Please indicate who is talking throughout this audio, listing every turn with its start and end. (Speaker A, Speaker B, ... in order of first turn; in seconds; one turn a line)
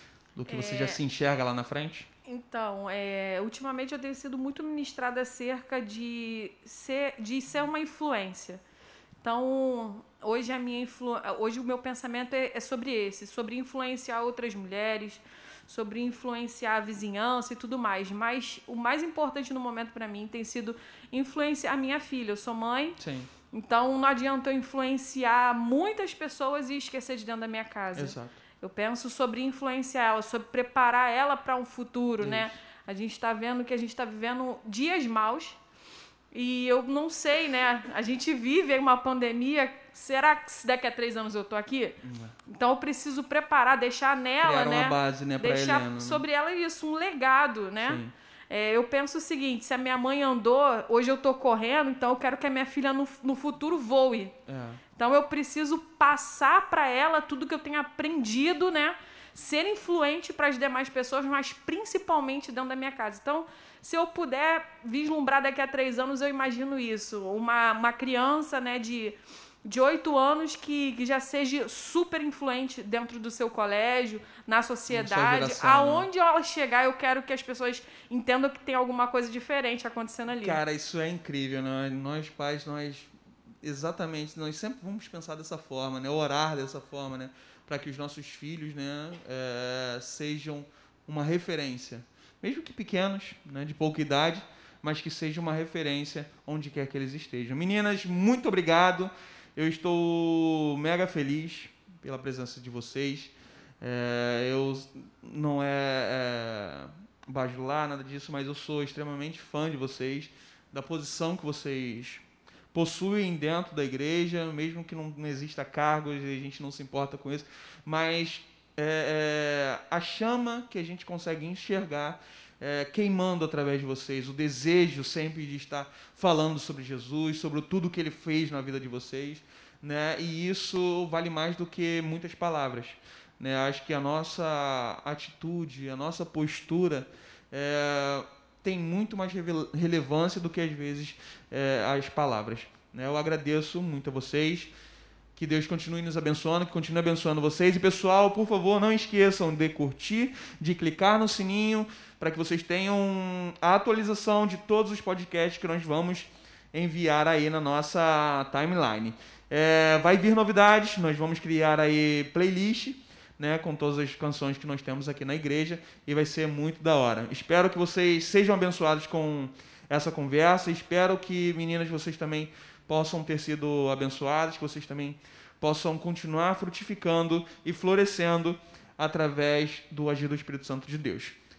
Speaker A: 0.3-2.1
Speaker B: 0.5-1.0
Speaker B: 2.2-8.6
Speaker B: 9.2-23.0
Speaker A: 23.0-23.3
Speaker B: 23.5-35.6
Speaker A: 27.9-28.4
Speaker A: 32.2-32.5
Speaker B: 36.3-54.4
Speaker A: 42.0-42.4
Speaker A: 44.4-46.2
Speaker A: 47.8-48.1
Speaker A: 54.5-54.8
Speaker B: 54.9-80.6
Speaker A: 74.9-76.1
Speaker A: 80.3-83.1
Speaker A: 83.6-144.7
Speaker A: 145.3-181.3